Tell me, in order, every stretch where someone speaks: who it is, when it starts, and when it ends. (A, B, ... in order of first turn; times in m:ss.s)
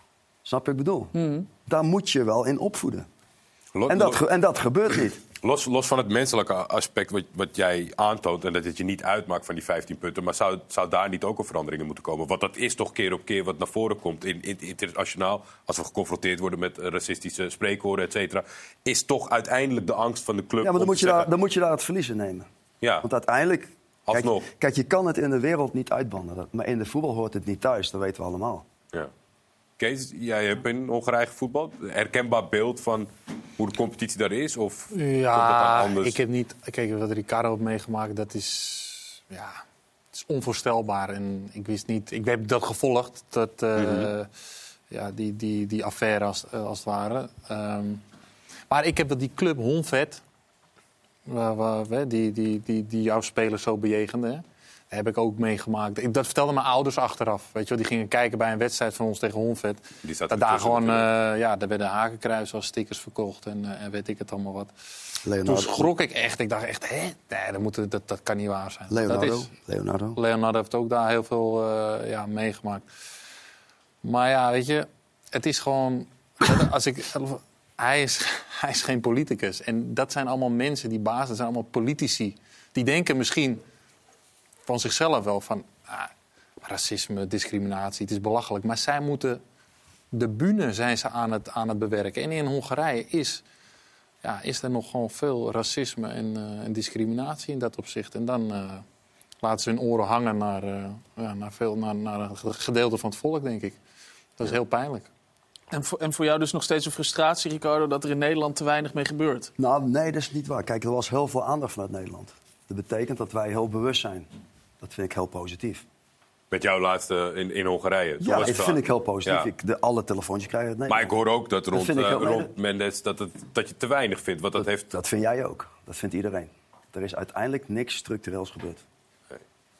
0:00.4-0:03.1 A
0:01.1-0:01.5 B
0:03.7-0:04.2 C
0:03.9-0:05.2 A
0:05.4-0:21.3 C
0:20.6-0:22.5 A
0:23.0-0:28.6 A
0:24.1-0:24.5 C
0:29.8-0:36.2 C
0:34.9-0:39.6 D
0:40.1-0:44.3 D
0:43.8-0:44.1 C
0:44.9-0:48.0 D
0:48.7-0:50.2 D
0:51.3-1:04.7 D
1:00.0-1:01.0 C
1:05.2-1:05.9 A
1:05.4-1:09.5 D
1:08.9-1:10.2 A
1:10.1-1:12.8 D
1:14.0-1:23.6 D
1:24.6-1:26.1 D
1:26.6-1:29.4 D
1:30.1-1:33.4 D
1:34.2-1:38.8 D
1:39.4-1:43.8 D
1:44.4-1:45.1 D
1:45.7-1:49.5 B
1:49.6-1:54.3 A
1:54.8-1:55.8 A
1:56.5-1:59.5 C
1:58.2-2:01.2 A
2:00.9-2:04.9 C
2:01.7-2:02.5 A
2:04.6-2:08.8 A